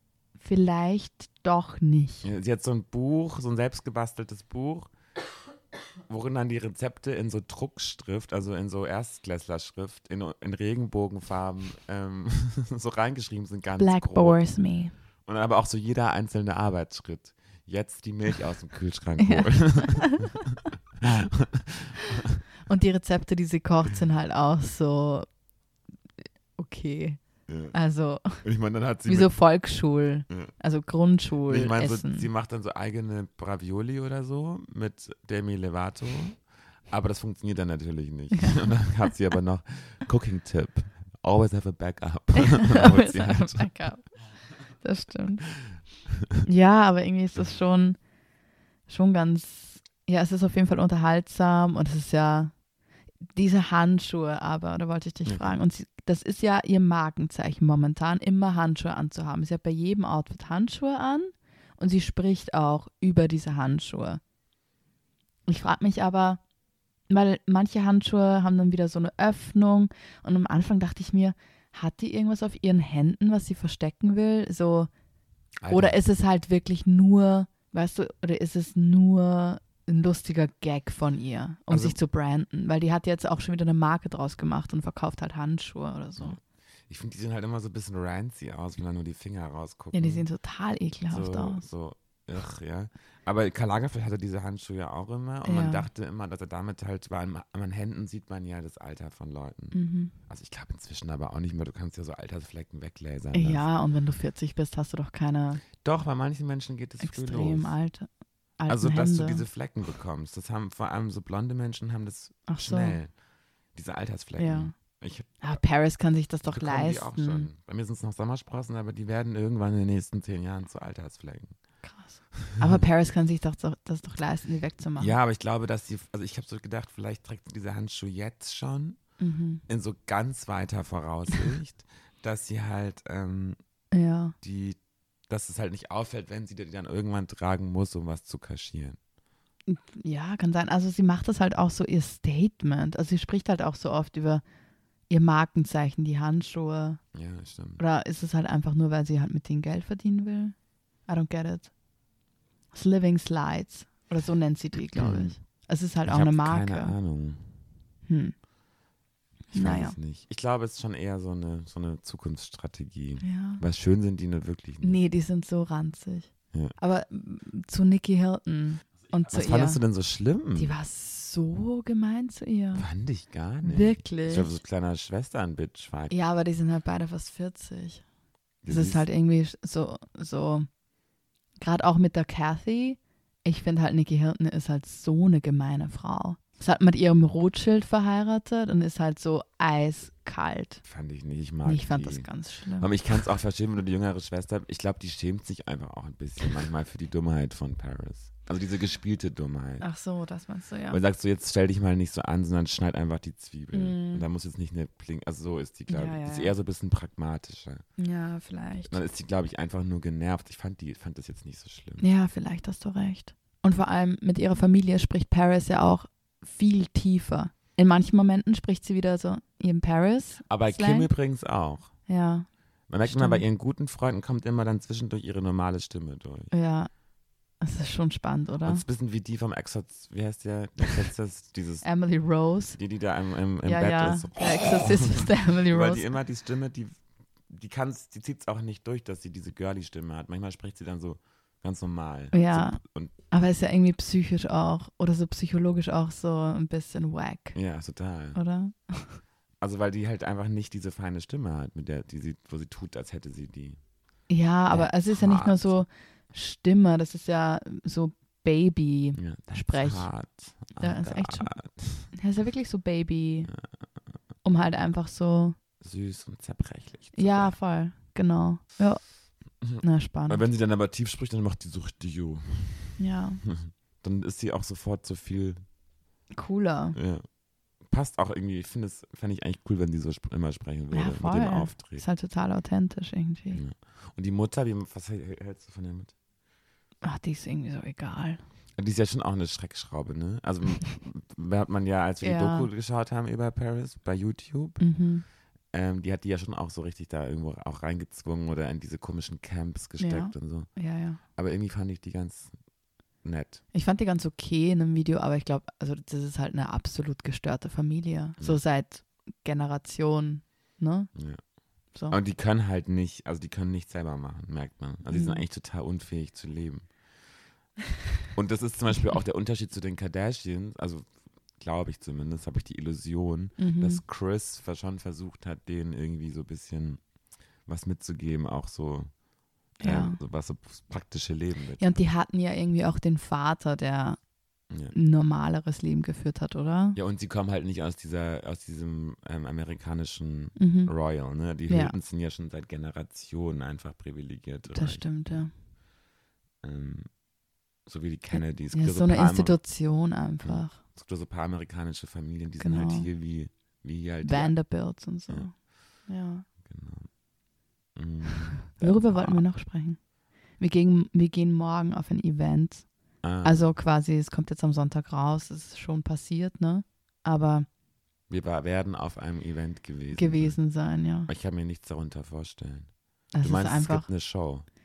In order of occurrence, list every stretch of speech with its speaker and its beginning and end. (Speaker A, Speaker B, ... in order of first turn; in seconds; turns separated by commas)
Speaker A: 0.4-2.3, Speaker B: 2.2-4.9, Speaker B: 6.1-14.4, Speaker A: 13.8-14.9, Speaker B: 15.2-22.4, Speaker A: 19.2-20.3, Speaker A: 22.6-25.3, Speaker A: 26.6-27.2, Speaker B: 27.5-27.7, Speaker A: 27.7-28.4, Speaker B: 28.4-29.3, Speaker A: 29.1-32.3, Speaker B: 31.4-43.7, Speaker A: 38.3-38.6, Speaker A: 42.4-44.2, Speaker A: 44.8-45.5, Speaker A: 46.4-48.0, Speaker A: 48.9-52.5, Speaker A: 53.3-64.2, Speaker B: 55.2-55.6, Speaker A: 65.5-66.4, Speaker A: 67.1-74.9, Speaker B: 75.6-76.0, Speaker A: 75.7-86.4, Speaker B: 81.7-82.0, Speaker B: 86.2-90.2, Speaker A: 89.9-91.6, Speaker B: 91.1-103.7, Speaker A: 95.4-95.9, Speaker A: 99.7-100.1, Speaker A: 103.3-105.6, Speaker B: 105.8-107.7, Speaker A: 107.0-108.1, Speaker A: 108.6-109.5, Speaker B: 108.7-113.1, Speaker A: 112.5-113.0, Speaker B: 113.7-115.3, Speaker A: 114.4-114.7, Speaker A: 115.4-117.5, Speaker B: 116.5-121.5, Speaker A: 121.8-125.2, Speaker B: 122.4-122.8, Speaker B: 125.0-129.0, Speaker A: 129.2-129.6, Speaker B: 129.7-133.6, Speaker A: 133.9-134.3, Speaker B: 134.4-134.8, Speaker B: 135.3-139.0, Speaker A: 139.7-144.4, Speaker A: 145.1-147.0, Speaker B: 147.1-147.8, Speaker A: 147.8-150.5, Speaker A: 151.1-151.7, Speaker A: 152.7-156.9, Speaker B: 154.9-155.4, Speaker B: 156.1-157.5, Speaker A: 158.1-158.3, Speaker A: 159.5-159.9, Speaker B: 159.5-165.0, Speaker A: 163.2-163.6, Speaker A: 164.8-169.8, Speaker B: 169.3-170.7, Speaker A: 170.5-172.9, Speaker B: 172.7-176.1, Speaker A: 173.6-174.6, Speaker A: 176.1-178.0, Speaker B: 178.6-179.0, Speaker A: 178.7-180.7, Speaker A: 181.6-190.8, Speaker B: 190.8-199.8, Speaker A: 191.6-192.9, Speaker A: 199.8-201.0, Speaker B: 200.9-207.8, Speaker A: 203.7-204.2, Speaker A: 205.9-206.5, Speaker A: 208.0-209.0, Speaker B: 208.9-212.0, Speaker A: 212.0-221.1, Speaker B: 220.5-221.9, Speaker A: 222.1-222.5, Speaker B: 222.9-226.5, Speaker A: 223.0-223.4, Speaker A: 226.5-226.9, Speaker A: 227.6-228.8, Speaker B: 228.6-231.8, Speaker A: 231.8-232.8, Speaker B: 232.7-237.0, Speaker A: 233.6-236.1, Speaker B: 237.5-243.1, Speaker A: 242.3-247.6, Speaker B: 247.5-248.4, Speaker A: 248.3-249.2, Speaker B: 249.6-253.8, Speaker A: 254.3-260.1, Speaker B: 254.7-255.8, Speaker B: 259.1-262.1, Speaker A: 260.8-261.5, Speaker A: 262.1-263.5, Speaker A: 264.4-265.6, Speaker B: 265.8-267.5, Speaker A: 267.1-269.1, Speaker B: 269.6-275.6, Speaker A: 269.7-270.4, Speaker A: 273.0-273.4, Speaker A: 276.3-277.0, Speaker B: 276.9-277.2, Speaker B: 277.8-282.0, Speaker A: 280.9-283.6, Speaker B: 283.5-286.1, Speaker A: 287.0-288.4, Speaker B: 288.8-294.8, Speaker A: 292.2-292.7, Speaker A: 294.8-295.2, Speaker B: 295.7-300.7, Speaker A: 300.0-301.2, Speaker B: 301.3-302.5, Speaker B: 303.2-303.6, Speaker A: 303.7-311.1, Speaker B: 311.1-311.4, Speaker B: 312.1-316.9, Speaker A: 315.1-315.4, Speaker B: 318.3-321.1, Speaker B: 321.6-327.0, Speaker A: 323.6-324.0, Speaker B: 327.6-329.1, Speaker A: 329.8-330.2, Speaker B: 329.8-331.9, Speaker A: 331.8-334.2, Speaker A: 334.9-337.0, Speaker B: 336.9-345.4, Speaker A: 340.6-340.9, Speaker A: 341.7-341.9, Speaker A: 344.7-345.5, Speaker B: 346.6-347.1, Speaker B: 347.9-349.6, Speaker A: 348.3-350.8, Speaker B: 350.4-354.6, Speaker A: 352.6-353.1, Speaker A: 354.2-356.4, Speaker B: 356.6-357.1, Speaker B: 357.9-359.4, Speaker A: 358.8-360.0, Speaker A: 360.6-362.9, Speaker B: 363.2-363.7, Speaker A: 363.4-367.7, Speaker B: 368.3-370.6, Speaker A: 370.1-371.3, Speaker B: 371.2-374.6, Speaker A: 373.3-374.1